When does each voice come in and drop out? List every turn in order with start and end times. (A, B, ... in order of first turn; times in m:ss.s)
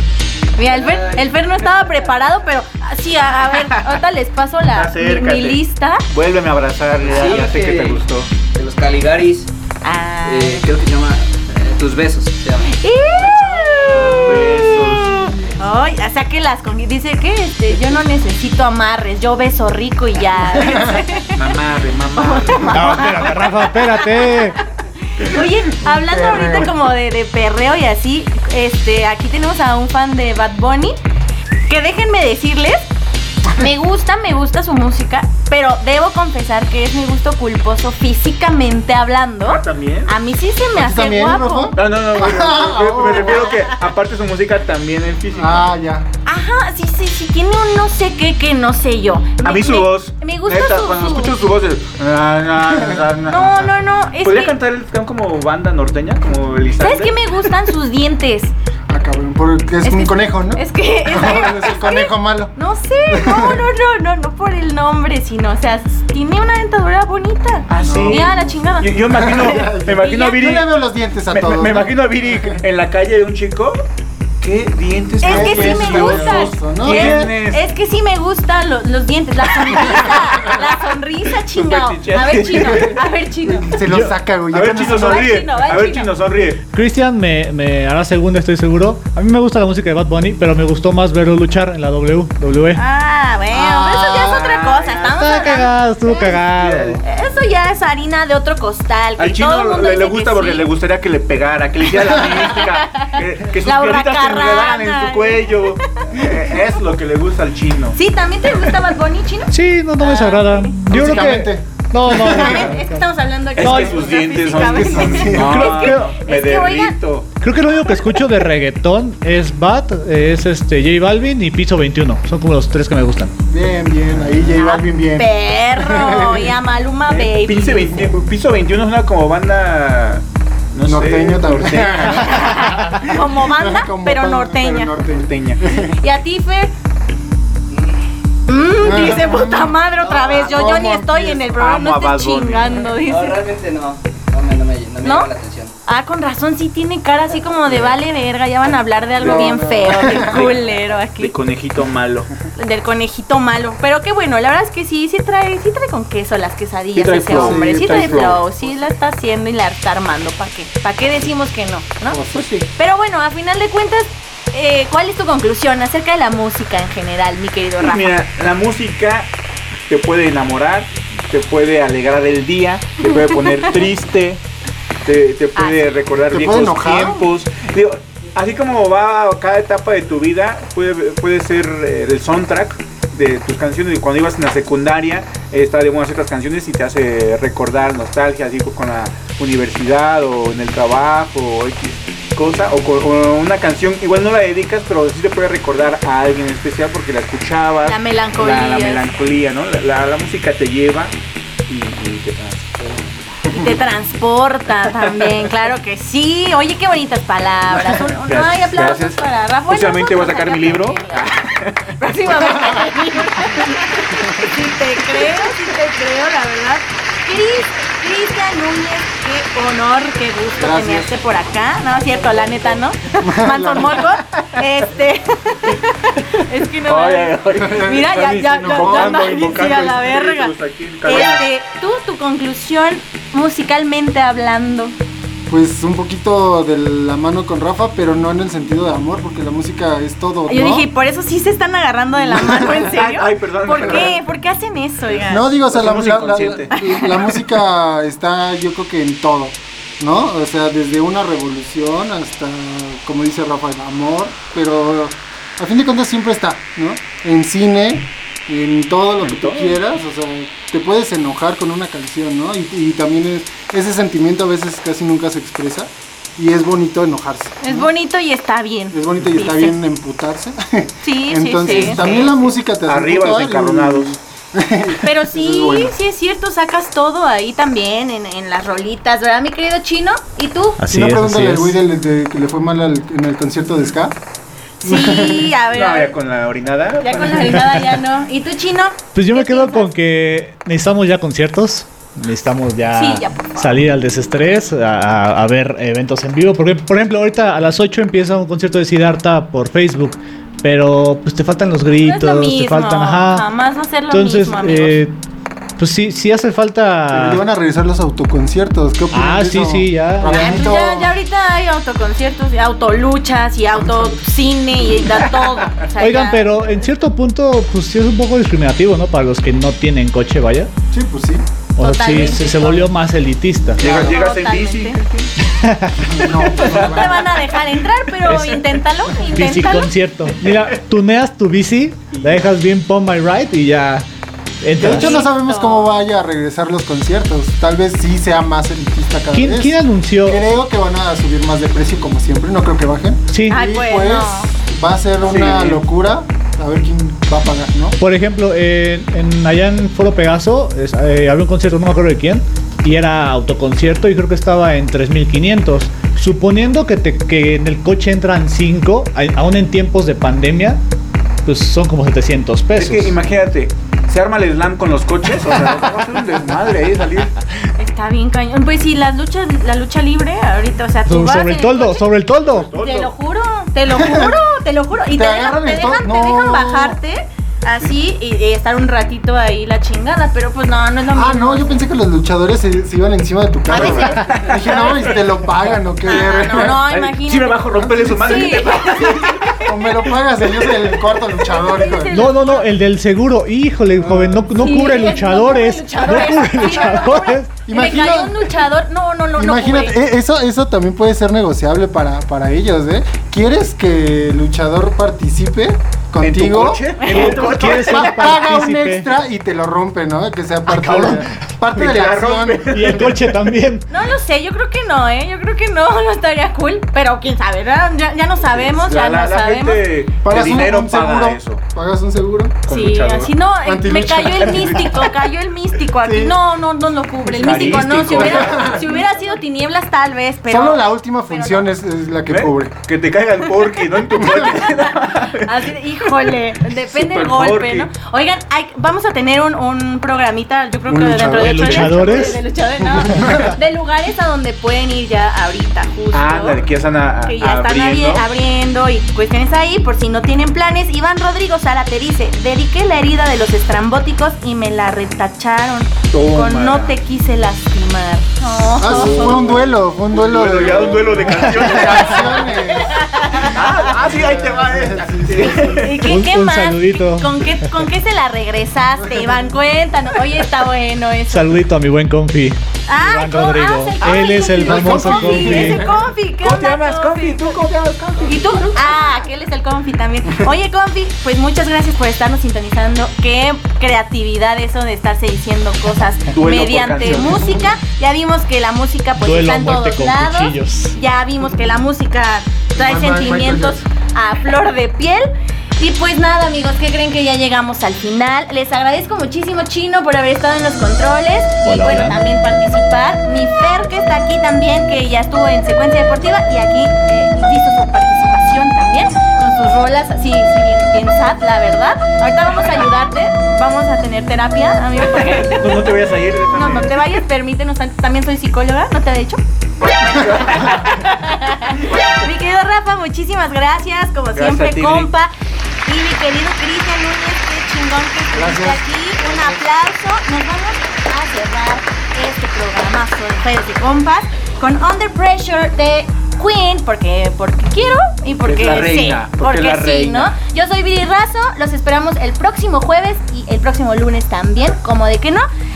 0:00.6-0:06.0 A
0:00.6-0:02.2 B
0:03.6-0:04.0 C
0:04.7-0:08.3 C
0:07.0-0:09.5 B
0:09.8-0:10.6 A
0:10.2-0:13.6 B
0:12.6-0:21.4 A
0:14.0-0:15.3 C
0:20.4-0:21.1 D
0:21.3-0:23.2 C
0:22.2-0:31.0 A
0:22.7-0:24.6 E
0:25.8-0:26.7 D
0:31.7-0:32.9 A
0:33.5-0:41.8 A
0:39.4-0:40.1 C
0:40.8-0:43.6 D
0:41.8-0:45.7 C
0:45.3-0:46.1 D
0:46.3-0:51.4 A
0:49.4-0:57.4 C
0:52.7-0:53.0 D
0:53.3-0:54.6 A
0:56.8-0:58.5 A
0:58.9-1:02.5 D
0:59.8-1:10.5 A
1:03.1-1:03.7 D
1:07.7-1:10.7 C
1:07.8-1:12.6 D
1:11.3-1:13.9 C
1:14.4-1:17.7 C
1:15.2-1:17.3 D
1:15.2-1:23.8 A
1:21.5-1:23.0 C
1:23.6-1:25.4 D
1:23.9-1:24.1 E
1:24.5-1:26.6 C
1:24.8-1:26.1 A
1:26.7-1:32.8 E
1:32.8-1:36.4 A
1:33.5-1:34.5 D
1:34.2-1:35.3 C
1:35.1-1:37.0 E
1:36.1-1:37.0 C
1:37.0-1:40.7 A
1:39.2-1:48.0 C
1:42.0-1:46.3 A
1:47.9-1:50.8 A
1:49.5-1:53.1 E
1:50.9-1:52.7 D
1:52.1-1:57.0 A
1:53.6-1:57.3 C
1:53.6-1:54.0 E
1:54.5-1:55.8 D
1:55.5-1:56.0 E
1:57.4-2:03.3 E
1:57.9-1:58.2 A
2:03.5-2:06.6 D
2:04.5-2:08.0 A
2:07.1-2:12.7 C
2:10.8-2:16.0 D
2:12.3-2:14.9 A
2:15.2-2:15.6 C
2:15.8-2:16.7 A
2:17.7-2:18.0 B
2:18.5-2:23.4 A
2:18.8-2:21.6 D
2:20.0-2:20.4 B
2:21.6-2:22.9 C
2:23.0-2:25.8 B
2:25.0-2:25.3 A
2:25.8-2:31.3 A
2:29.2-2:30.6 D
2:29.2-2:30.6 C
2:31.2-2:32.3 C
2:32.6-2:48.2 A
2:37.0-2:38.4 C
2:37.3-2:38.4 D
2:42.1-2:42.5 D
2:42.3-2:42.7 C
2:47.8-2:49.3 C
2:49.9-2:54.4 C
2:53.1-2:53.7 A
2:55.0-3:21.1 C
2:55.6-2:55.9 A
2:56.3-2:57.3 D
3:17.8-3:19.2 A
3:21.7-3:23.4 C
3:23.5-3:55.0 A
3:25.0-3:25.5 C
3:27.9-3:31.9 C
3:32.6-3:32.9 D
3:40.6-3:41.1 D
3:43.2-3:44.0 D
3:46.8-3:51.4 C
3:47.6-3:49.3 D
3:55.5-4:00.9 D
4:00.5-4:05.6 A
4:02.3-4:02.9 D
4:02.7-4:04.2 C
4:05.3-4:27.9 D
4:05.6-4:06.8 C
4:06.7-4:07.1 A
4:19.2-4:19.8 C
4:27.6-4:29.8 A
4:28.9-4:36.0 D
4:31.0-4:32.3 A
4:31.7-4:34.2 C
4:35.0-4:40.8 A
4:40.8-4:41.8 E
4:40.8-4:44.2 D
4:44.8-4:46.2 A
4:44.8-4:45.5 D
4:45.7-4:47.8 C
4:47.0-4:49.9 A
4:49.2-5:03.5 E
4:52.9-4:53.8 A
5:02.0-5:05.0 A
5:04.1-5:05.2 E
5:05.8-5:07.4 E
5:07.1-5:11.2 D
5:09.1-5:10.7 E
5:10.3-5:16.6 A
5:16.0-5:20.7 E
5:20.9-5:21.5 D
5:21.8-5:23.8 E
5:21.8-5:22.9 A
5:23.8-5:25.3 C
5:23.8-5:25.0 A
5:23.8-5:24.2 D
5:25.6-5:26.3 E
5:26.1-5:27.4 D
5:26.5-5:27.2 C
5:26.7-5:29.9 A
5:28.3-5:28.6 E
5:29.3-5:34.1 E
5:32.1-5:32.5 C
5:34.6-5:35.2 E
5:34.8-5:48.0 D
5:34.8-5:35.9 A
5:39.3-5:40.4 E
5:43.3-5:43.6 E
5:43.5-5:44.5 A
5:45.2-5:45.8 C
5:48.0-6:00.8 E
6:01.4-6:03.2 E
6:02.8-6:07.3 C
6:07.8-6:12.2 A
6:11.1-6:12.7 E
6:12.4-6:13.1 C
6:12.8-6:21.8 A
6:13.9-6:14.4 D
6:15.1-6:17.0 D
6:21.1-6:26.9 D
6:23.7-6:25.0 C
6:23.7-6:25.0 A
6:26.1-6:29.4 A
6:26.5-6:29.7 C
6:27.7-6:32.3 D
6:30.5-6:30.9 C
6:31.3-6:32.7 A
6:32.1-6:37.5 E
6:34.0-6:34.5 C
6:34.5-6:40.0 A
6:37.6-6:38.5 D
6:39.4-6:53.2 D
6:46.2-6:48.4 C
6:47.0-6:47.4 A
6:47.1-6:49.1 E
6:50.7-6:51.3 E
6:51.8-6:53.5 C
6:52.7-6:53.8 E
6:53.9-6:59.8 A
6:58.4-7:01.6 C
7:00.2-7:02.6 D
7:02.7-7:03.3 C
7:02.7-7:11.7 A
7:03.6-7:05.1 D
7:06.0-7:06.4 D
7:07.3-7:08.7 C
7:07.4-7:09.0 D
7:10.5-7:12.8 D
7:12.3-7:17.9 C
7:13.4-7:26.6 A
7:20.9-7:23.5 D
7:21.4-7:22.4 E
7:23.1-7:23.5 E
7:26.1-7:28.2 C
7:27.3-7:39.5 A
7:36.1-7:37.0 C
7:38.8-7:43.4 D
7:38.8-7:42.5 C
7:42.5-7:43.9 A
7:43.3-7:46.1 C
7:43.9-7:45.9 D
7:45.6-7:51.6 A
7:46.1-7:47.7 E
7:51.3-7:55.9 E
7:52.9-7:57.6 A
7:54.6-7:56.0 D
7:56.4-7:59.1 C
7:58.2-8:35.9 A
8:06.3-8:07.5 C
8:07.0-8:07.7 D
8:09.2-8:11.0 E
8:12.8-8:13.9 D
8:21.6-8:22.2 E
8:35.2-8:37.1 C
8:36.5-8:39.4 A
8:40.0-8:41.1 C
8:40.0-8:45.3 A
8:44.4-8:45.1 C
8:45.8-9:05.5 A
8:48.3-8:49.4 D
8:58.4-9:00.3 C